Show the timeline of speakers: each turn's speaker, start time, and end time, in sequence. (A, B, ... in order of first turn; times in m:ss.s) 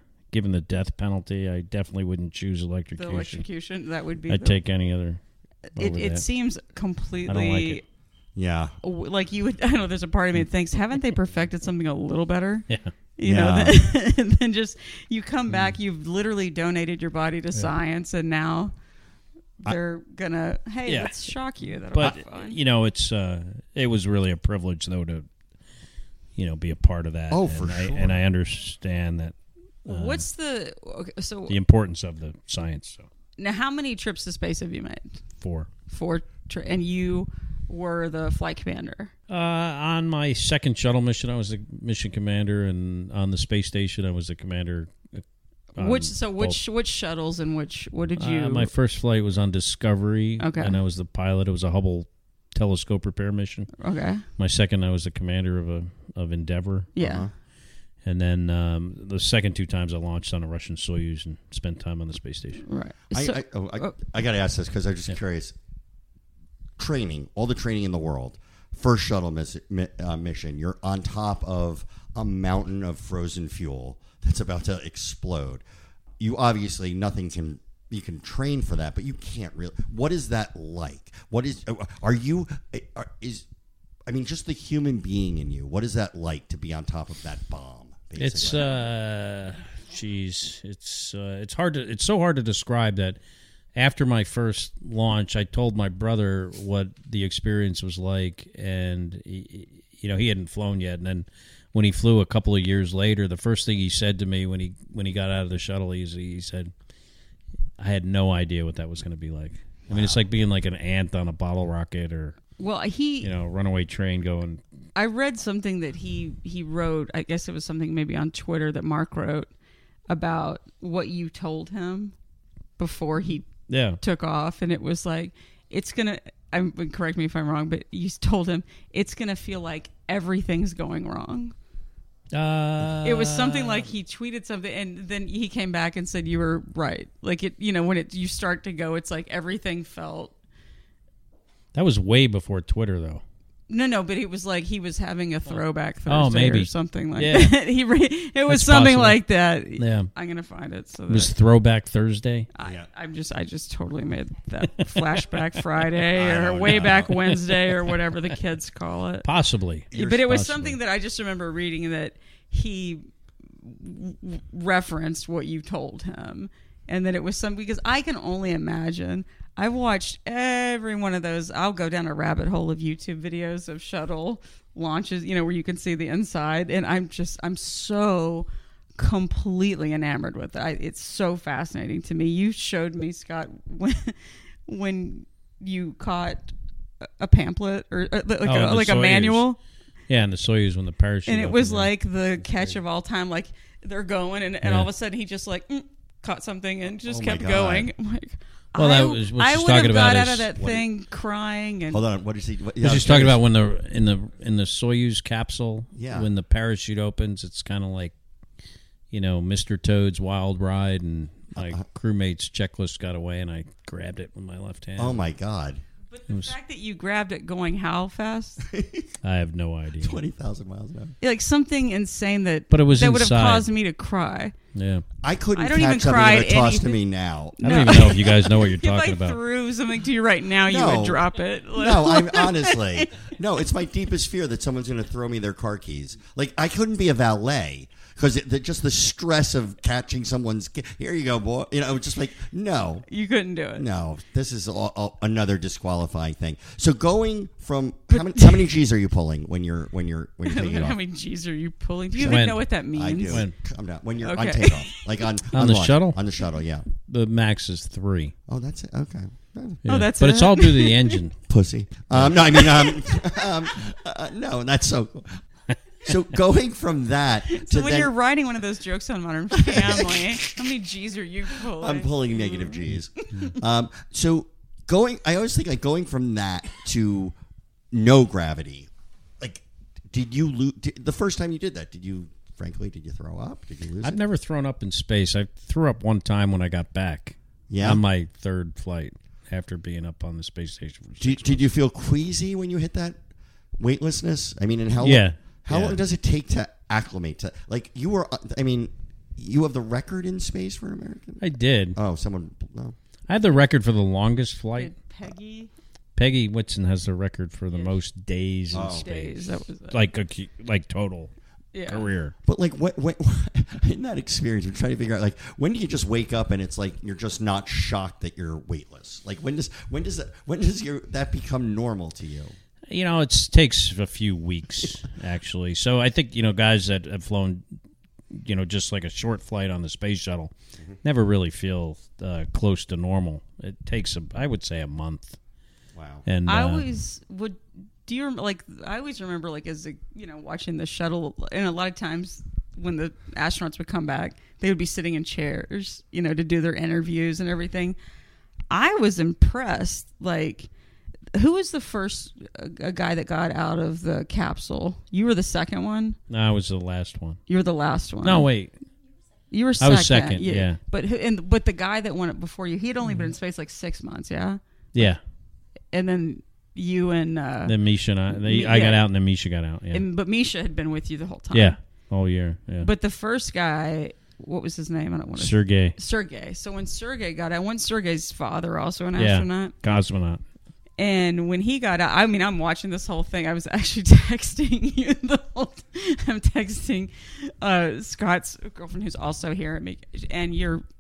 0:00.3-0:03.4 A
0:03.0-0:04.6 B
0:04.3-0:05.2 A
0:05.8-0:06.2 A
0:05.8-0:07.8 B
0:07.3-0:07.8 A
0:08.4-0:08.8 C
0:08.8-0:18.7 B
0:13.2-0:13.8 C
0:19.6-0:22.6 B
0:20.9-0:21.2 A
0:21.9-0:25.3 A
0:26.4-0:30.2 A
0:27.3-0:28.2 C
0:29.9-0:31.6 B
0:31.5-0:33.1 A
0:33.4-0:35.2 B
0:35.4-0:35.7 A
0:35.9-0:39.1 B
0:39.3-0:45.2 A
0:45.8-0:46.6 A
0:45.8-0:48.7 B
0:48.2-0:53.7 A
0:50.4-0:50.8 B
0:53.8-0:54.2 B
0:54.4-0:56.9 A
0:57.0-0:57.3 B
0:57.0-0:57.3 C
0:58.0-1:02.6 A
1:02.6-1:04.0 B
1:03.1-1:05.6 C
1:06.8-1:15.6 C
1:16.2-1:23.5 C
1:24.1-1:28.7 C
1:28.2-1:33.2 A
1:33.8-1:46.7 A
1:47.8-1:52.4 A
1:49.9-1:50.2 C
1:52.6-1:53.3 B
1:53.2-1:54.6 A
1:55.0-1:59.5 B
2:00.1-2:02.1 B
2:02.8-2:03.5 B
2:03.7-2:04.0 A
2:04.0-2:11.6 B
2:12.3-2:13.9 A
2:13.0-2:20.3 B
2:21.7-2:23.2 A
2:23.7-2:31.3 B
2:26.1-2:27.6 A
2:28.5-2:29.2 A
2:29.8-2:30.1 A
2:31.1-2:32.5 A
2:32.6-2:39.3 B
2:32.6-2:32.9 C
2:34.8-2:35.2 A
2:36.2-2:37.1 C
2:36.6-2:37.6 A
2:39.2-2:40.8 A
2:39.9-2:43.1 B
2:43.6-3:04.2 B
3:04.7-3:06.5 B
3:07.2-3:09.6 B
3:08.4-3:09.5 A
3:10.1-3:11.9 A
3:11.3-3:22.0 B
3:14.6-3:14.9 A
3:17.0-3:17.9 C
3:18.8-3:20.5 A
3:20.6-3:20.9 C
3:21.9-3:23.4 C
3:22.8-3:28.1 A
3:26.0-3:26.3 C
3:29.1-3:35.2 A
3:31.6-3:31.8 C
3:35.0-3:35.8 C
3:36.1-3:38.6 B
3:38.6-3:39.1 C
3:39.2-3:40.2 A
3:40.0-3:41.2 C
3:41.2-3:44.5 B
3:42.7-3:43.7 A
3:44.7-3:45.0 A
3:45.2-3:48.2 C
3:45.6-3:47.0 B
3:47.6-3:53.1 B
3:47.6-3:49.4 A
3:50.7-4:03.1 C
4:03.1-4:03.9 B
4:03.8-4:11.0 C
4:08.1-4:08.7 B
4:10.5-4:13.4 B
4:12.2-4:16.9 C
4:12.2-4:12.6 A
4:14.2-4:14.9 B
4:15.5-4:16.2 A
4:17.1-4:18.3 A
4:18.5-4:19.8 C
4:19.8-4:21.4 A
4:19.9-4:21.2 B
4:21.5-4:25.4 C
4:26.0-4:28.1 C
4:27.5-4:32.8 B
4:29.5-4:30.5 C
4:31.6-4:37.4 C
4:37.9-4:38.9 C
4:39.4-4:44.2 C
4:44.0-4:51.6 A
4:47.7-4:48.0 C
4:51.2-4:53.2 C
4:53.8-5:01.4 C
4:55.0-4:56.0 A
5:01.4-5:02.0 A
5:02.0-5:03.0 C
5:03.3-5:05.0 A
5:04.8-5:05.7 B
5:06.2-5:11.3 A
5:08.7-5:09.1 C
5:08.8-5:10.0 B
5:11.7-5:12.1 B
5:11.9-5:12.4 A
5:12.4-5:22.5 C
5:22.9-5:27.6 A
5:28.3-5:30.5 A
5:31.0-5:35.4 A
5:36.0-5:36.2 C
5:36.3-5:36.9 A
5:36.5-5:48.0 B
5:48.7-5:50.7 B
5:51.3-5:56.2 B
5:56.3-5:57.4 A
5:57.5-5:58.5 B
5:58.2-5:58.7 A
5:59.5-6:05.1 B
5:59.8-6:00.8 A
6:04.9-6:05.2 A
6:05.9-6:07.8 B
6:07.7-6:10.0 A
6:08.3-6:09.0 B
6:09.9-6:11.8 B
6:11.5-6:12.9 A
6:12.8-6:19.8 B
6:15.4-6:16.0 A
6:19.2-6:20.4 A
6:21.0-6:30.8 B